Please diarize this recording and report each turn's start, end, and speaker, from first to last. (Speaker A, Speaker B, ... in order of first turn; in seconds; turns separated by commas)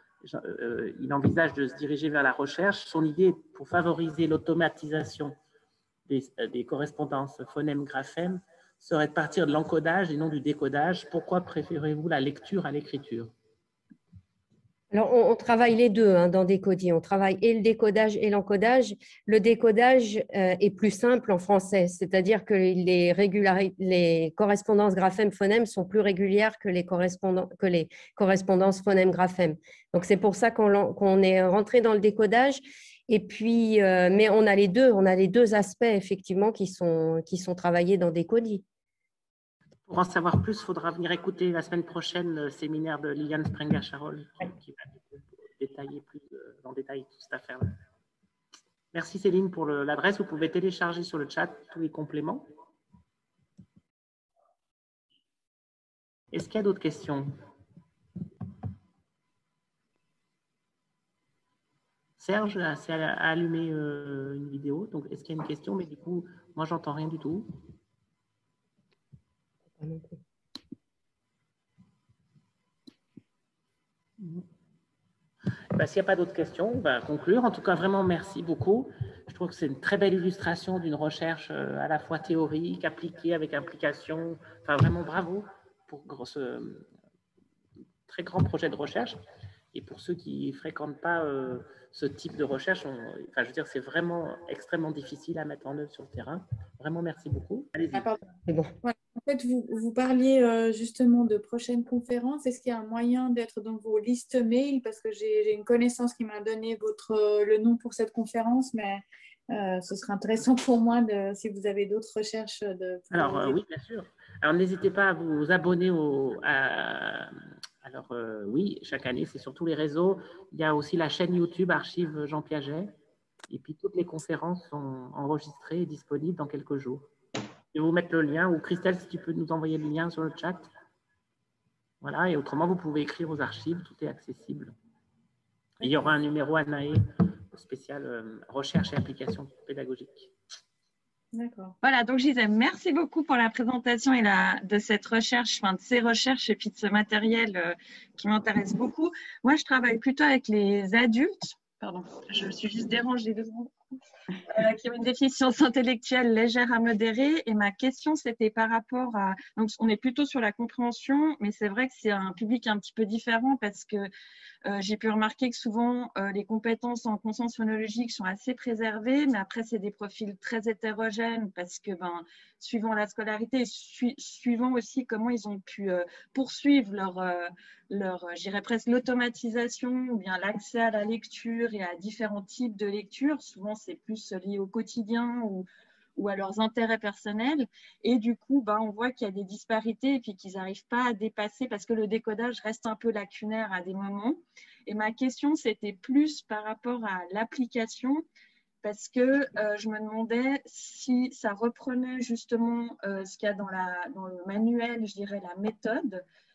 Speaker A: 0.2-5.3, Speaker A: 6.1-13.3, Speaker B: 14.9-38.6, Speaker A: 39.9-47.8, Speaker A: 48.9-52.5, Speaker A: 56.3-57.4, Speaker A: 62.2-67.5, Speaker B: 69.8-70.2, Speaker A: 75.7-86.9, Speaker A: 88.1-89.2, Speaker A: 89.7-98.0, Speaker C: 98.0-98.2, Speaker B: 98.5-98.7, Speaker C: 98.8-113.6, Speaker A: 113.1-122.9, Speaker A: 123.5-127.1, Speaker A: 127.7-130.7, Speaker A: 132.0-134.7, Speaker A: 135.8-140.3, Speaker C: 141.3-141.8, Speaker D: 141.8-153.7, Speaker D: 154.5-164.1, Speaker D: 164.7-198.2, Speaker D: 198.8-206.2